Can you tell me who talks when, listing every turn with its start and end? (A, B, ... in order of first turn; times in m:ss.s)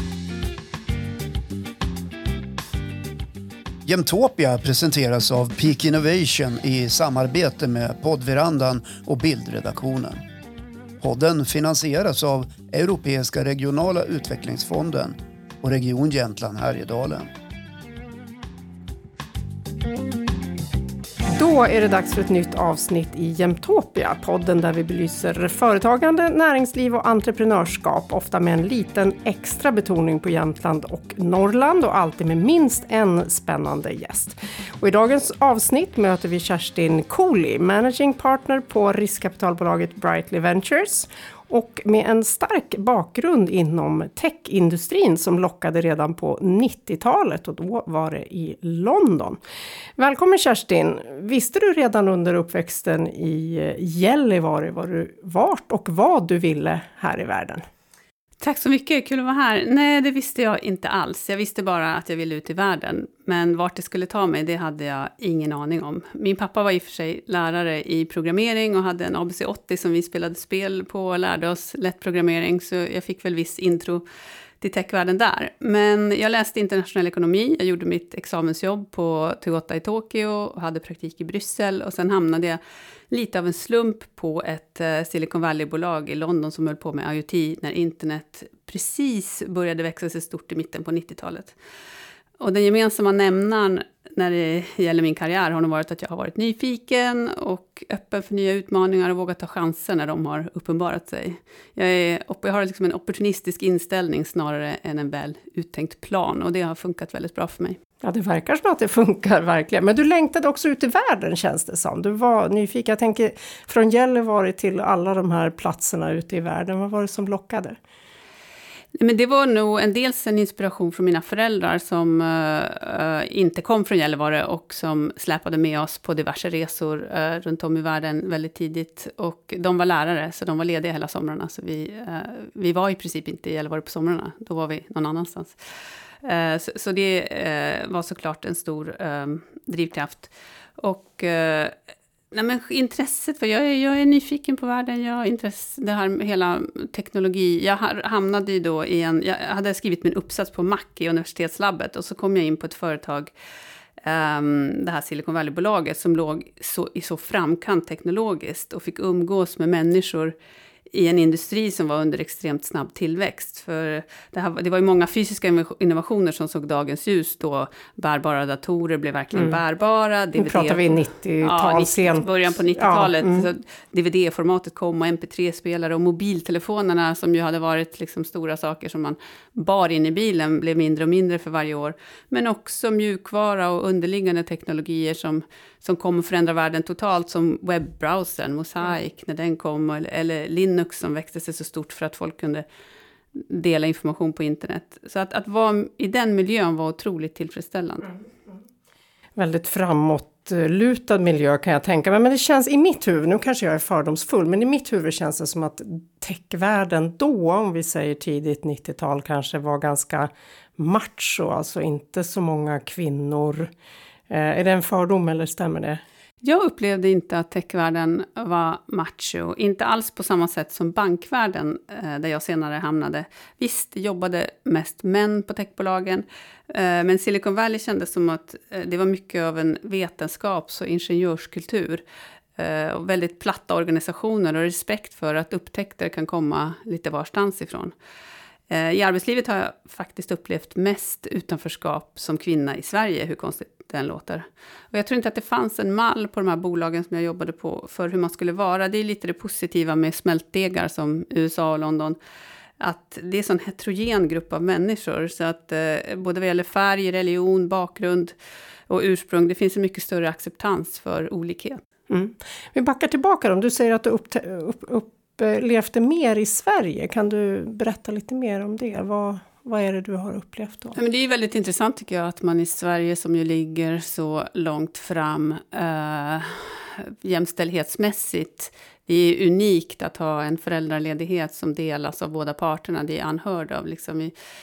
0:03.8-0:10.2 A
0:11.0-0:17.3 A
0:21.3-0:49.4 B
0:50.0-0:57.6 B
0:58.4-1:14.0 C
1:14.6-1:22.6 C
1:23.1-1:31.5 C
1:32.4-1:47.8 C
1:48.0-1:57.8 B
1:59.0-2:15.6 C
2:16.2-2:21.8 C
2:22.3-2:33.3 C
2:34.0-2:40.3 C
2:40.9-3:12.6 C
2:50.4-2:53.5 B
3:13.3-3:18.2 C
3:19.4-3:33.7 B
3:34.3-3:36.0 B
3:36.4-3:52.0 C
3:52.6-3:57.9 C
3:58.7-4:12.2 C
4:12.8-4:18.3 C
4:18.9-4:21.8 C
4:22.1-4:31.0 B
4:30.9-4:44.3 C